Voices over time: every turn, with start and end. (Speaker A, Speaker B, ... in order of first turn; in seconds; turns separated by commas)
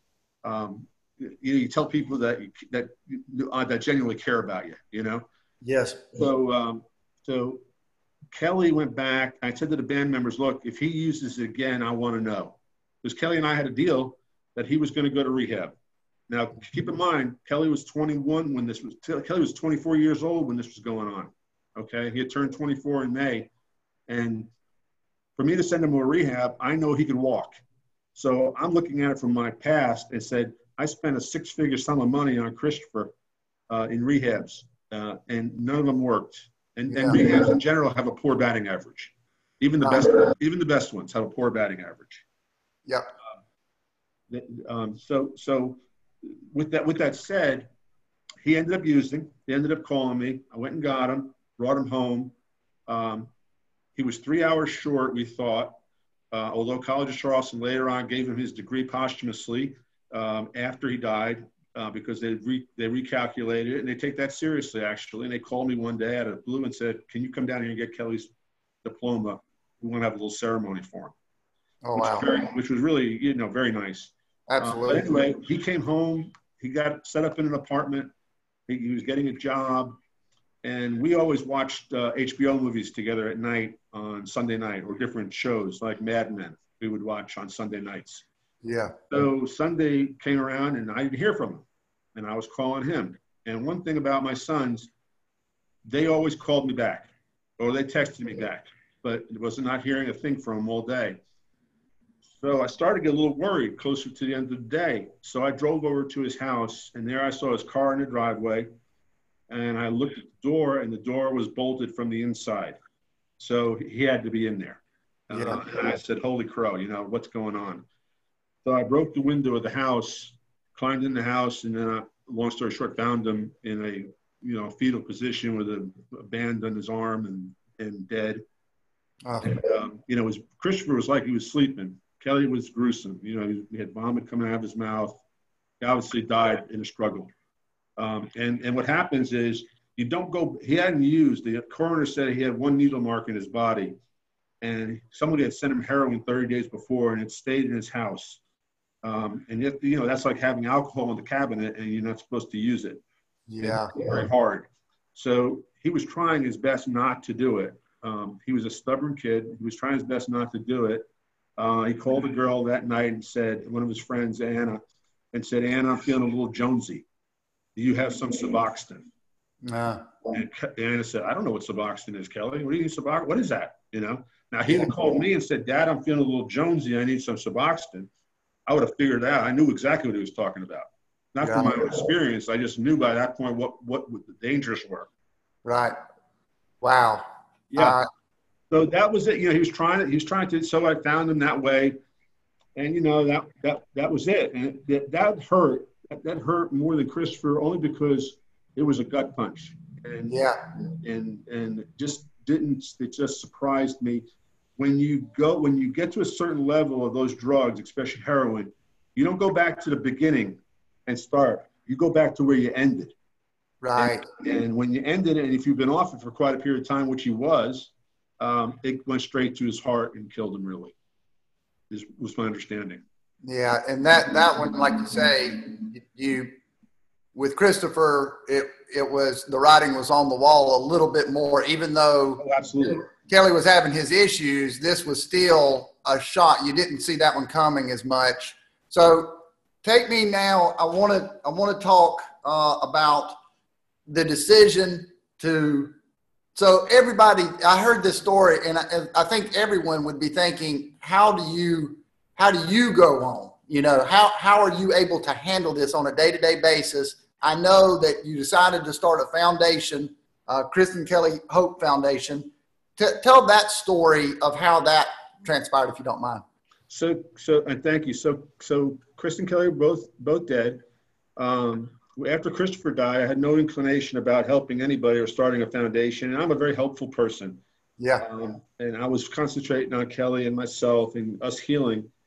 Speaker A: 0.4-5.2, Speaker B: 5.6-6.1, Speaker A: 6.1-7.6, Speaker A: 8.3-15.8, Speaker A: 16.3-23.5, Speaker A: 24.1-24.5, Speaker A: 25.4-27.6, Speaker A: 28.1-33.1, Speaker A: 33.7-42.2, Speaker B: 36.9-37.3, Speaker B: 39.8-40.1, Speaker A: 44.3-47.7, Speaker A: 48.4-52.3, Speaker A: 52.9-53.3, Speaker A: 53.9-55.8, Speaker A: 56.3-68.3, Speaker A: 68.8-71.1, Speaker B: 71.8-72.3, Speaker A: 71.9-78.1, Speaker B: 74.5-75.1, Speaker A: 78.7-80.0, Speaker A: 80.6-88.2, Speaker B: 88.6-89.0, Speaker A: 89.1-94.9, Speaker A: 95.8-101.2, Speaker A: 102.4-108.7, Speaker A: 109.5-112.8, Speaker A: 113.4-117.8, Speaker B: 115.3-115.6, Speaker A: 118.6-128.4, Speaker B: 129.2-129.6, Speaker A: 129.4-135.2, Speaker A: 135.8-137.3, Speaker A: 138.0-143.9, Speaker A: 144.6-148.4, Speaker A: 149.0-153.0, Speaker B: 153.5-154.1, Speaker A: 153.6-161.1, Speaker A: 161.6-164.8, Speaker A: 165.3-167.1, Speaker A: 167.8-169.1, Speaker B: 169.6-170.1, Speaker A: 170.3-178.1, Speaker B: 174.7-175.1, Speaker A: 178.7-185.1, Speaker B: 181.4-181.8, Speaker B: 185.6-185.9, Speaker B: 186.8-187.2, Speaker A: 187.7-188.0, Speaker B: 187.8-188.1, Speaker A: 188.7-191.9, Speaker A: 192.8-200.4, Speaker B: 200.3-200.6, Speaker A: 201.0-204.2, Speaker A: 204.8-213.1, Speaker B: 213.8-214.2, Speaker A: 213.9-220.9, Speaker A: 221.9-223.0, Speaker B: 223.4-226.5, Speaker B: 227.3-232.4, Speaker A: 232.4-233.1, Speaker B: 233.1-243.3, Speaker B: 244.1-245.9, Speaker B: 246.6-266.4, Speaker A: 266.9-270.8, Speaker A: 271.4-277.6, Speaker B: 278.0-278.2, Speaker A: 278.2-282.1